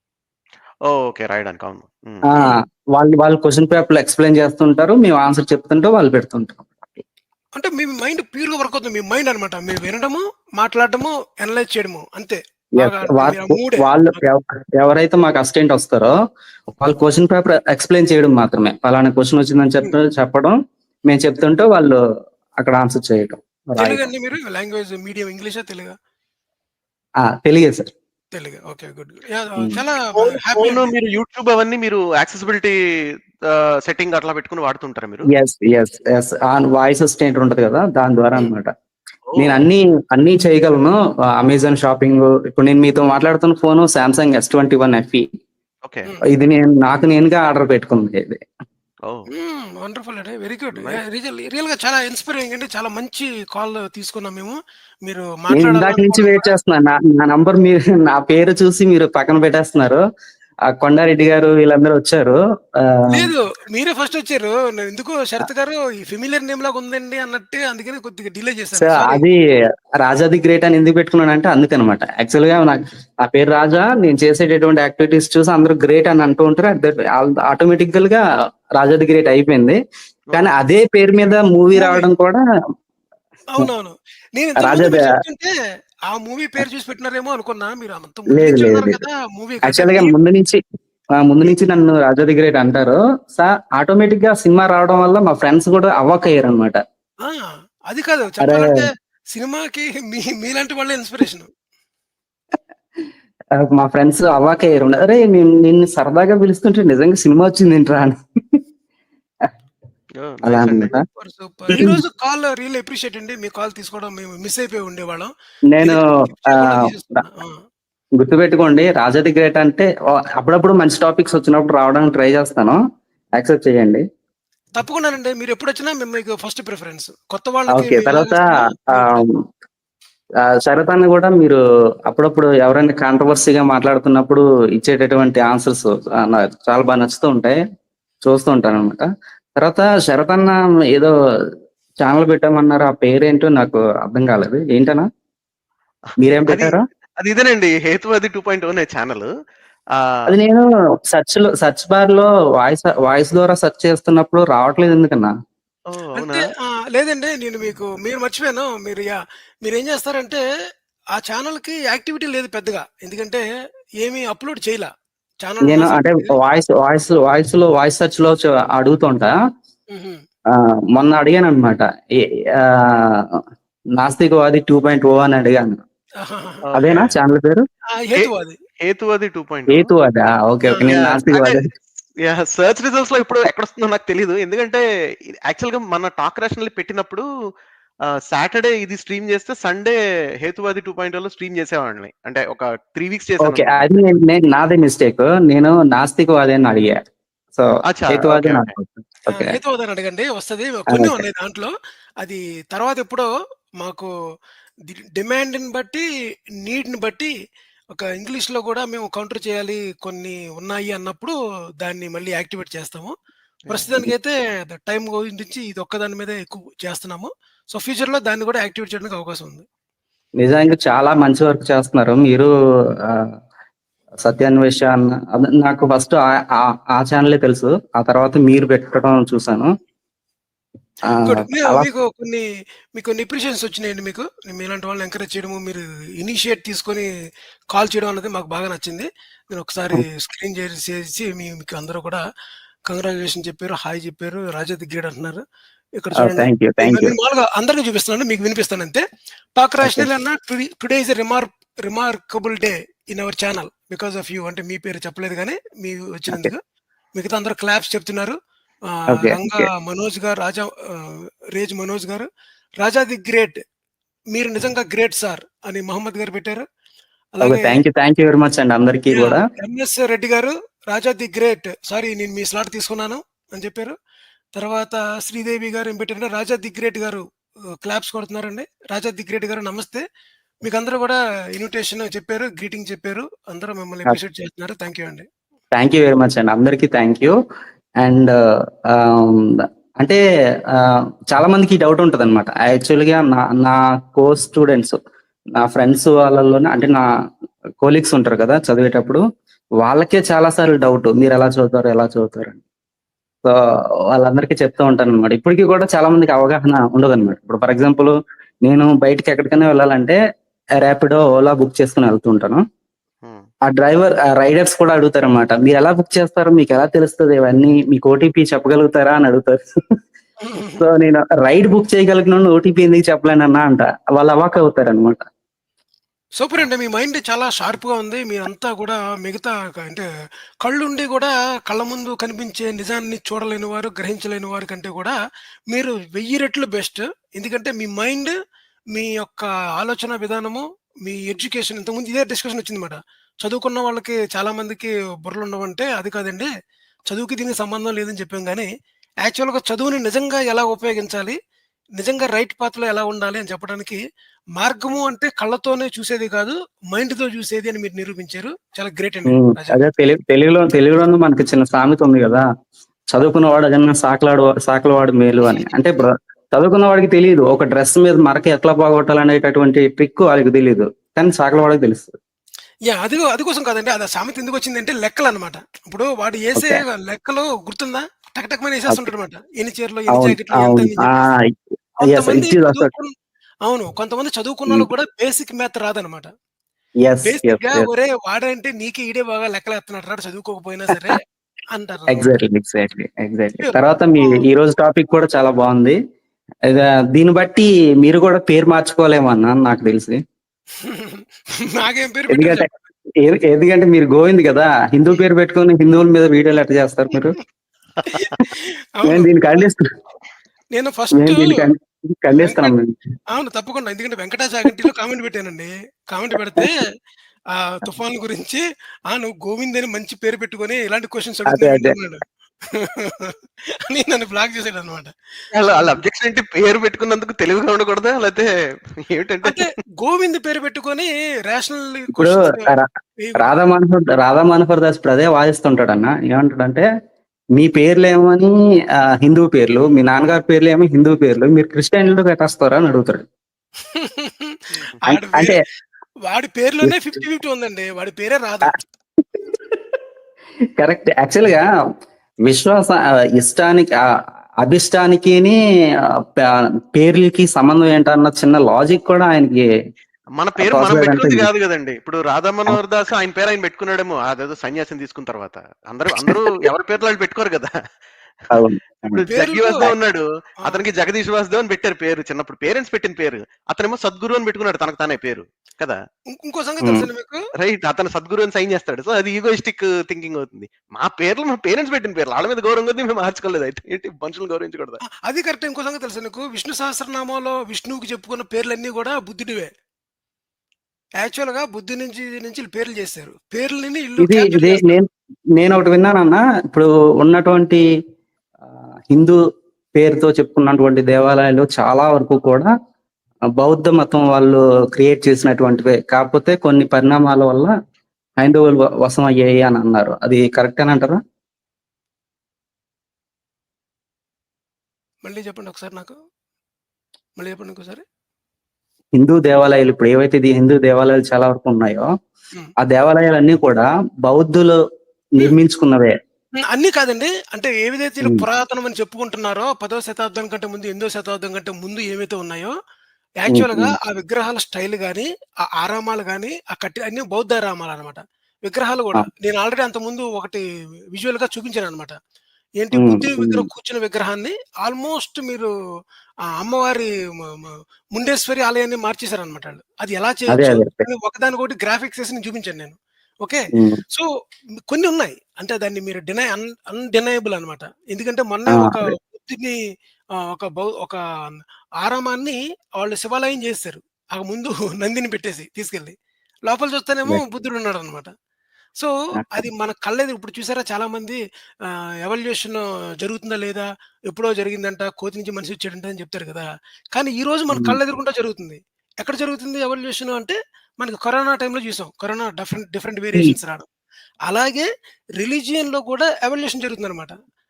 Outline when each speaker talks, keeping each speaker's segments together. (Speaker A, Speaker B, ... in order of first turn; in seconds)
Speaker A: 0.9-2.3, 30.1-32.7, 33.9-35.3, 39.3-39.6, 80.3-80.5, 110.2-111.0, 146.5-149.3, 155.9-156.4, 176.7-177.1, 178.8-179.9, 180.8-184.8, 185.5-187.2, 188.3-193.9, 197.9-198.7, 213.7-213.9, 425.5-428.5, 429.0-429.6, 460.4-467.7, 469.1-476.0, 477.6-485.0
Speaker B: 2.3-7.0, 12.8-16.1, 16.8-20.6, 21.1-22.0, 22.6-24.1, 27.4-27.9, 35.3-38.7, 39.4-45.3, 46.3-48.4, 55.5-60.0, 60.7-63.3, 68.8-69.4, 70.0-78.2, 78.8-79.8, 80.3-82.4, 84.6-85.1, 88.3-89.0, 89.7-90.6, 91.2-96.8, 98.4-98.8, 103.6-108.2, 110.4-111.0, 111.7-112.0, 115.7-116.8, 118.2-122.8, 123.4-124.0, 127.7-128.4, 129.0-129.3, 130.6-137.6, 138.2-139.0, 139.6-141.1, 142.0-145.1, 146.2-146.8, 150.3-155.3, 165.7-169.3, 170.6-173.4, 174.0-175.8, 176.8-177.6, 179.7-181.7, 193.4-197.0, 197.5-199.5, 200.9-201.2, 220.4-222.5, 224.2-229.7, 231.1-231.9, 246.2-247.2, 259.1-259.7, 267.4-269.4, 285.7-287.4, 288.0-288.4, 288.9-290.2, 290.7-295.0, 295.6-297.0, 297.8-299.2, 299.8-302.6, 304.1-310.2, 310.8-312.6, 313.7-319.6, 320.8-325.2, 359.3-362.4, 363.1-372.1, 380.1-381.4, 382.1-382.9, 387.0-387.9, 392.1-396.0, 396.7-400.2, 402.3-402.7, 403.2-407.4, 409.1-409.8, 411.1-412.9, 421.5-422.0, 432.2-432.9, 433.4-436.9, 437.6-438.5, 439.2-443.2, 445.0-445.6, 450.8-451.6, 452.5-454.0, 454.6-455.6, 456.1-459.6, 460.6-461.5, 468.5-469.2, 494.2-495.1, 495.6-497.8, 499.1-499.4, 500.0-502.7, 503.6-507.7, 508.4-511.2, 519.2-522.1, 522.8-524.8, 525.4-526.1, 533.5-533.9, 543.0-543.7, 550.5-551.0, 553.8-554.0, 558.7-559.0, 569.4-569.6
Speaker C: 7.6-14.2, 23.8-25.9, 28.4-30.9, 49.3-56.5, 63.1-69.2, 81.8-82.1, 83.5-85.5, 86.1-90.2, 97.2-101.5, 111.1-115.3, 115.8-117.6, 124.8-129.2, 156.2-160.4, 161.2-163.4, 164.0-164.9, 165.4-166.3, 169.9-170.2, 176.2-176.7, 178.0-178.6, 180.7-180.9, 199.3-203.3, 203.8-204.1, 204.9-206.1, 206.6-207.3, 207.9-213.1, 213.7-219.7, 231.1-232.4, 233.0-237.1, 237.7-242.2, 242.9-245.4, 246.0-249.0, 249.6-256.6, 257.2-258.4, 258.9-262.3, 262.8-263.6, 264.3-266.6, 267.4-267.8, 269.1-273.9, 274.6-277.2, 277.8-280.0, 280.6-285.3, 320.4-320.8, 326.4-330.1, 330.6-335.1, 335.7-338.3, 338.9-346.5, 347.1-348.7, 349.2-351.4, 352.0-354.0, 354.6-359.8, 365.4-365.7, 372.9-381.1, 382.0-383.1, 383.6-386.3, 387.2-391.2, 391.7-392.4, 393.6-394.4, 400.8-402.7, 408.1-409.7, 410.7-411.7, 412.4-412.7, 413.3-416.8, 417.6-423.3, 423.9-425.1, 429.4-433.4, 443.9-445.6, 446.3-448.8, 469.3-469.8, 476.3-477.4, 485.3-489.7, 491.2-494.9, 515.2-516.1, 517.4-518.0, 526.7-532.7, 533.4-535.3, 535.8-540.6, 541.1-542.1, 542.8-545.7, 546.6-554.3, 554.9-559.8, 560.4-566.1, 566.7-568.3, 569.0-583.9, 584.5-587.3